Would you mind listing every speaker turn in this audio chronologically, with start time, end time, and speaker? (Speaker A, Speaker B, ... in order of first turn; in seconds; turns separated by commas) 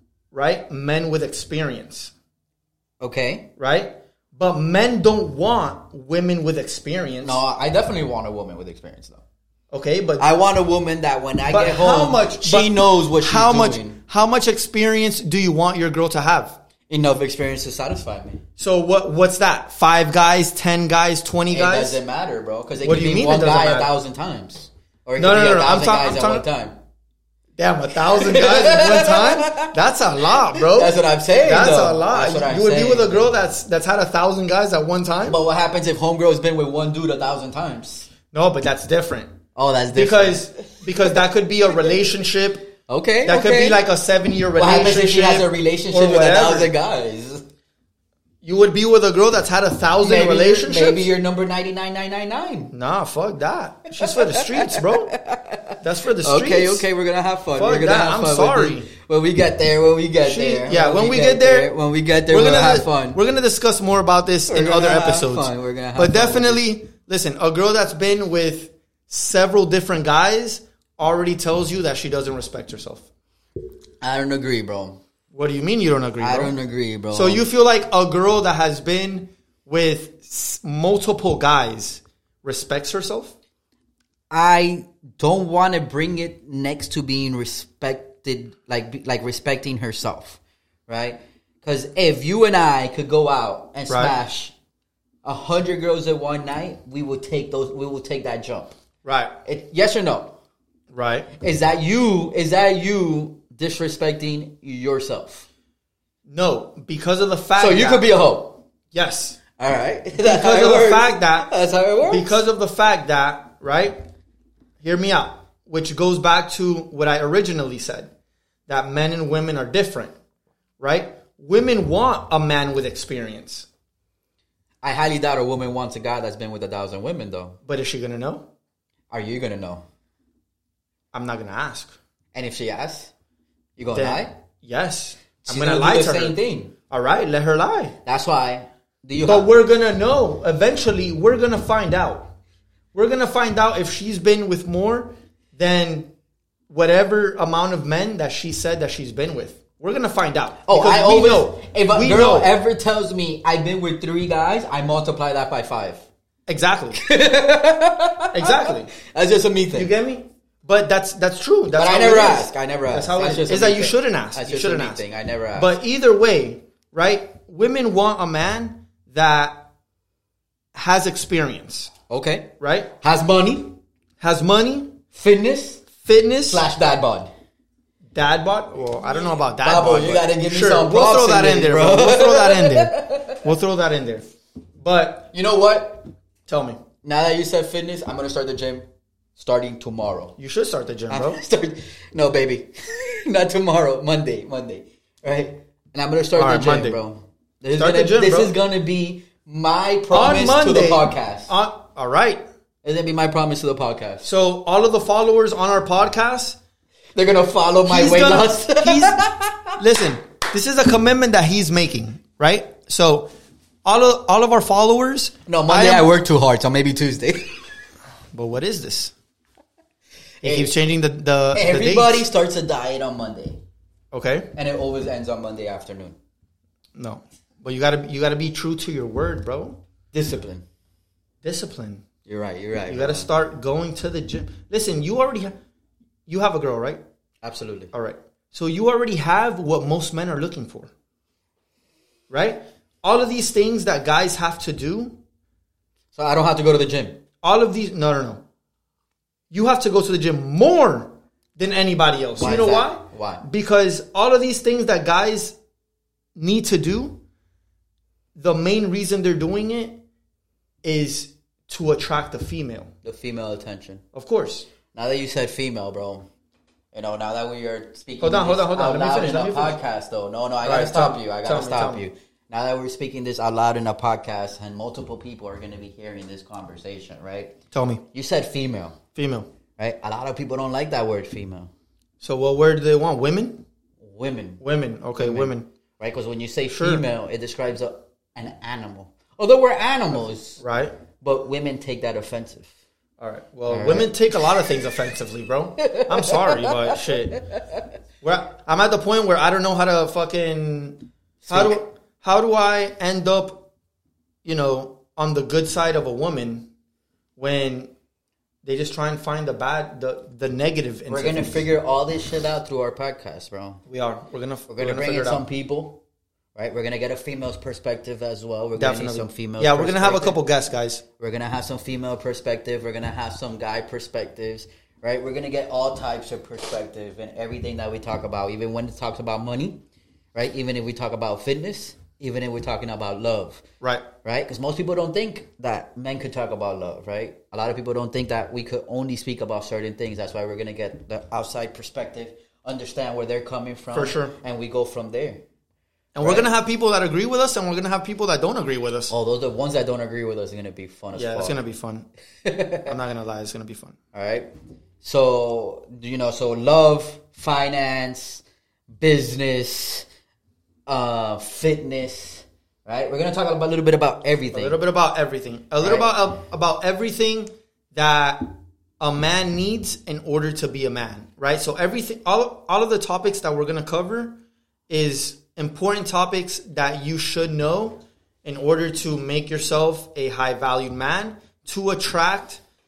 Speaker A: 0.3-2.1, Speaker B: 3.0-3.5, Speaker A: 3.6-7.4, Speaker B: 7.2-9.2, Speaker A: 9.7-10.3, Speaker B: 10.2-14.0, Speaker A: 11.5-16.6, Speaker B: 16.9-18.4, Speaker A: 18.6-22.0, Speaker B: 21.5-26.8, Speaker A: 22.8-23.9, Speaker A: 25.2-26.5, Speaker A: 27.6-35.4, Speaker B: 28.1-29.8, Speaker B: 30.3-33.3, Speaker B: 35.2-38.1, Speaker A: 38.3-39.4, Speaker B: 39.5-41.1, Speaker A: 39.9-42.7, Speaker B: 42.9-43.8, Speaker A: 43.2-46.7, Speaker B: 44.6-47.4, Speaker A: 48.4-51.1, Speaker B: 50.0-52.7, Speaker A: 52.7-55.1, Speaker B: 54.0-63.2, Speaker A: 55.8-56.9, Speaker A: 57.5-58.9, Speaker A: 60.2-61.7, Speaker A: 62.3-73.1, Speaker B: 64.5-66.6, Speaker B: 74.0-75.0, Speaker A: 75.3-76.5, Speaker B: 76.2-77.5, Speaker A: 77.1-83.3, Speaker B: 84.3-94.5, Speaker A: 93.9-94.2, Speaker B: 95.2-98.8, Speaker A: 99.0-99.4, Speaker B: 99.5-100.4, Speaker A: 100.9-101.3, Speaker B: 101.4-105.5, Speaker A: 106.3-108.1, Speaker B: 107.6-108.6, Speaker A: 108.9-109.4, Speaker B: 109.6-112.4, Speaker A: 110.2-111.5, Speaker A: 112.1-114.0, Speaker A: 114.8-118.1, Speaker A: 118.7-120.1, Speaker A: 120.8-123.7, Speaker B: 124.8-127.6, Speaker A: 127.7-128.5, Speaker B: 129.1-129.8, Speaker A: 131.1-131.9, Speaker B: 132.3-133.1, Speaker B: 133.8-134.3, Speaker A: 133.9-136.4, Speaker B: 135.4-136.7, Speaker A: 136.9-138.0, Speaker B: 138.1-139.5, Speaker A: 139.2-142.3, Speaker A: 142.9-146.1, Speaker A: 146.7-152.5, Speaker B: 150.7-156.1, Speaker A: 156.5-157.0, Speaker B: 156.9-159.9, Speaker A: 158.3-158.9, Speaker A: 159.7-165.0, Speaker B: 161.7-165.8, Speaker A: 165.6-169.7, Speaker A: 170.7-171.9, Speaker B: 172.1-173.7, Speaker A: 172.6-172.9, Speaker A: 174.2-174.9, Speaker B: 175.1-175.9, Speaker A: 176.0-176.7, Speaker B: 176.5-177.3, Speaker A: 178.1-184.2, Speaker B: 179.6-183.4, Speaker A: 184.8-185.3, Speaker B: 185.3-186.1, Speaker A: 186.5-186.8, Speaker B: 187.0-190.4, Speaker A: 190.4-191.4, Speaker B: 191.1-201.5, Speaker A: 196.4-197.0, Speaker A: 197.8-198.5, Speaker A: 200.1-202.4, Speaker B: 202.8-204.3, Speaker A: 204.2-206.6, Speaker B: 207.2-209.8, Speaker A: 207.9-209.2, Speaker A: 209.8-213.3, Speaker A: 213.8-216.1, Speaker B: 215.5-217.5, Speaker A: 218.3-219.1, Speaker B: 220.4-220.7, Speaker A: 220.4-222.3, Speaker B: 221.5-223.6, Speaker A: 224.1-224.5, Speaker B: 224.5-226.2, Speaker A: 226.9-229.8, Speaker B: 230.1-230.7, Speaker A: 231.4-232.1, Speaker B: 232.2-233.3, Speaker A: 232.9-235.6, Speaker A: 236.3-237.0, Speaker B: 237.4-237.9, Speaker A: 237.9-240.9, Speaker A: 242.3-245.2, Speaker B: 246.1-247.2, Speaker A: 247.4-248.4, Speaker A: 249.5-255.6, Speaker B: 252.4-253.4, Speaker A: 256.4-257.2, Speaker A: 258.4-260.0, Speaker A: 260.8-262.9, Speaker B: 263.0-264.0, Speaker A: 264.1-264.7, Speaker B: 264.9-266.3, Speaker B: 266.9-277.6, Speaker A: 268.2-269.8, Speaker A: 270.6-272.1, Speaker A: 277.7-278.0, Speaker B: 278.1-279.0, Speaker A: 279.2-279.5, Speaker B: 279.8-281.7, Speaker A: 282.2-283.6, Speaker B: 284.0-284.6, Speaker A: 284.6-285.7, Speaker B: 285.2-290.6, Speaker A: 286.7-287.1, Speaker A: 290.6-290.9, Speaker B: 291.2-292.7, Speaker A: 293.2-297.4, Speaker B: 293.7-294.4, Speaker B: 295.8-297.8, Speaker A: 298.2-303.7, Speaker B: 301.4-301.8, Speaker A: 304.4-306.7, Speaker A: 307.4-307.9, Speaker A: 308.6-311.7, Speaker B: 311.1-313.8, Speaker A: 313.9-315.5, Speaker B: 314.7-316.0, Speaker B: 316.6-320.4, Speaker A: 318.8-321.0, Speaker B: 321.2-329.8, Speaker B: 330.3-333.6, Speaker A: 333.8-334.1, Speaker B: 334.2-345.4, Speaker A: 343.9-344.4, Speaker A: 346.1-349.1, Speaker B: 346.2-346.5, Speaker B: 349.1-351.6, Speaker A: 351.1-352.1, Speaker B: 352.4-352.9, Speaker A: 352.9-354.0, Speaker B: 354.1-354.5, Speaker B: 355.0-360.1, Speaker B: 360.9-364.8, Speaker A: 364.5-382.6, Speaker B: 365.8-366.1